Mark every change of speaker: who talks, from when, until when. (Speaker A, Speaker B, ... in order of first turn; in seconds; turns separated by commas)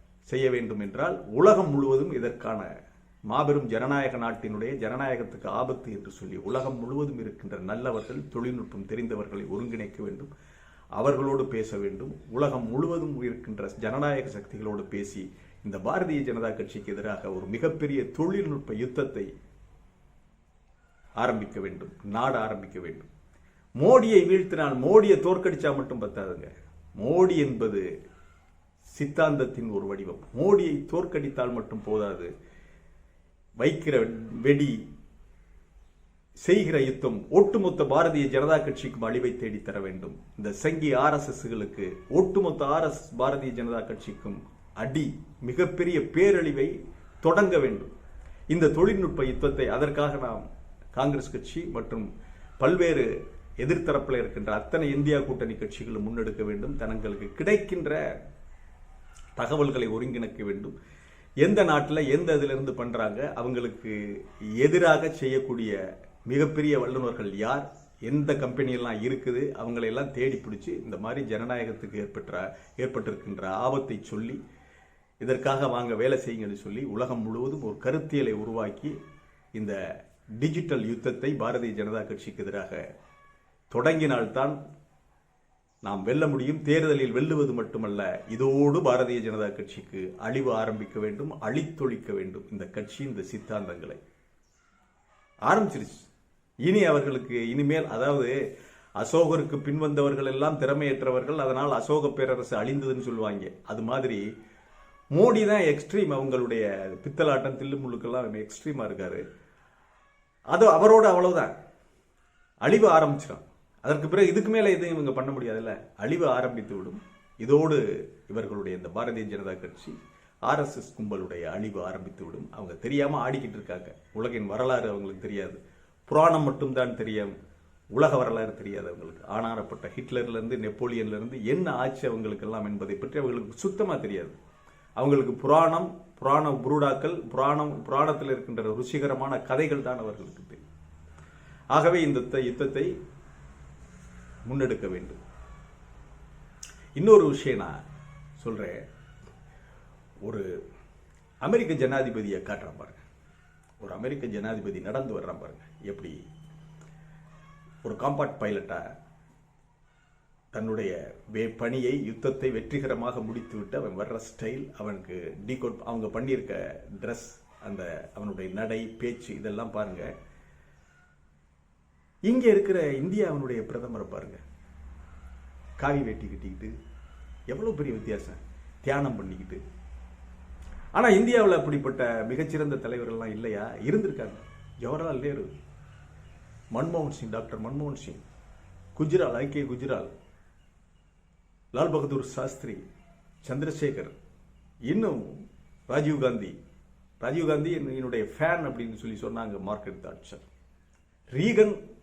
Speaker A: 0.3-2.7, Speaker A: 3.3-10.3, Speaker A: 11.0-19.3, Speaker A: 21.2-23.1, Speaker A: 23.8-27.9, Speaker A: 28.9-32.3, Speaker A: 33.6-34.8, Speaker A: 36.4-47.9, Speaker A: 48.5-52.1, Speaker A: 52.6-58.0, Speaker A: 59.4-60.8, Speaker A: 61.4-74.4, Speaker A: 75.2-79.0, Speaker A: 79.5-79.8, Speaker A: 80.4-82.8, Speaker A: 83.7-84.6, Speaker A: 85.8-94.0, Speaker A: 95.5-96.1, Speaker A: 96.6-98.4, Speaker A: 99.0-104.2, Speaker A: 105.1-109.2, Speaker A: 110.5-111.5, Speaker A: 112.6-127.3, Speaker A: 127.9-134.3, Speaker A: 135.0-140.6, Speaker A: 141.7-142.9, Speaker A: 144.5-145.2, Speaker A: 147.0-147.8, Speaker A: 148.4-148.8, Speaker A: 151.4-153.0, Speaker A: 153.8-156.2, Speaker A: 157.8-158.9, Speaker A: 160.5-170.1, Speaker A: 172.3-174.4, Speaker A: 175.8-176.7, Speaker A: 177.5-179.6, Speaker A: 180.9-185.5, Speaker A: 186.7-188.2, Speaker A: 188.9-190.1, Speaker A: 191.7-192.8, Speaker A: 193.4-194.2, Speaker A: 194.9-196.6, Speaker A: 197.2-200.5, Speaker A: 201.3-201.8